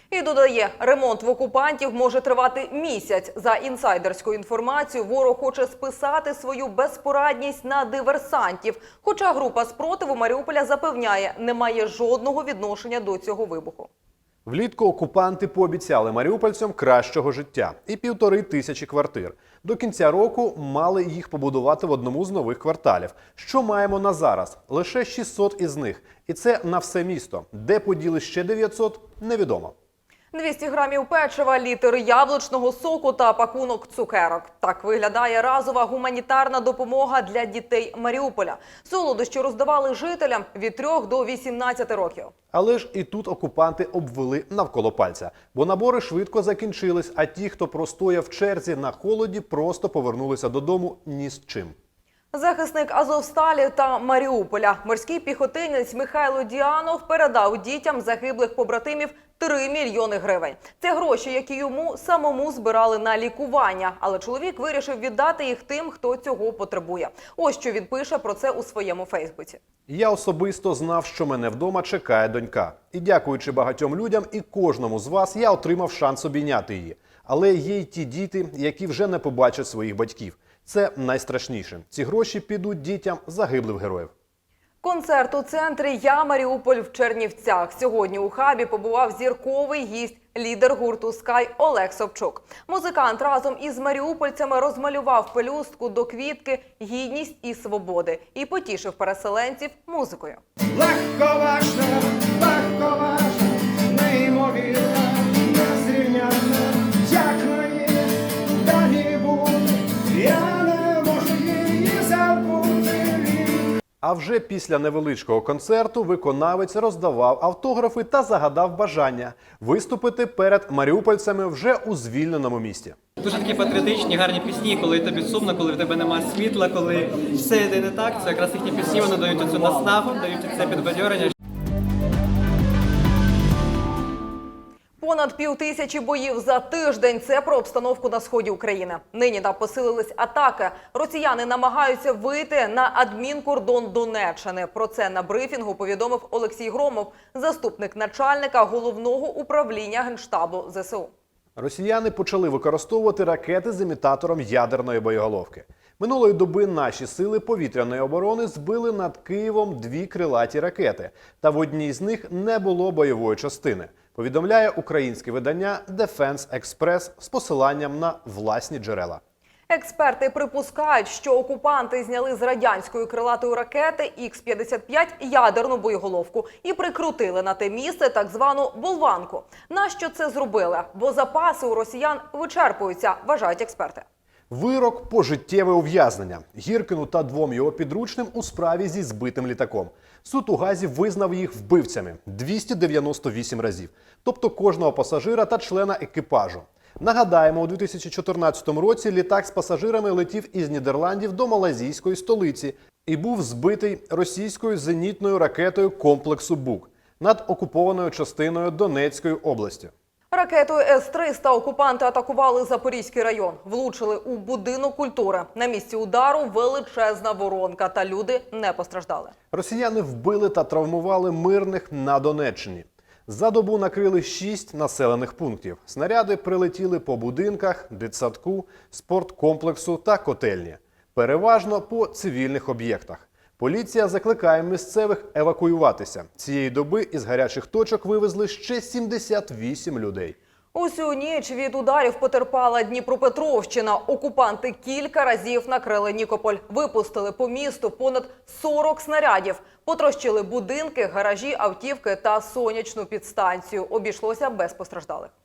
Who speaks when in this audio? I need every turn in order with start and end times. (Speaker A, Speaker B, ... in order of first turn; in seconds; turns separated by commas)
Speaker A: 0.1-13.9, Speaker B: 14.4-29.7, Speaker A: 30.3-42.3, Speaker B: 42.5-51.7, Speaker A: 52.3-69.6, Speaker B: 69.9-84.1, Speaker A: 84.8-100.4, Speaker C: 100.7-113.7, Speaker B: 114.0-123.0, Speaker D: 123.2-131.3, Speaker A: 135.0-151.1, Speaker B: 151.6-169.2, Speaker A: 169.7-184.0, Speaker B: 184.5-209.9, Speaker A: 210.3-219.3, Speaker B: 219.5-240.3, Speaker A: 240.7-255.3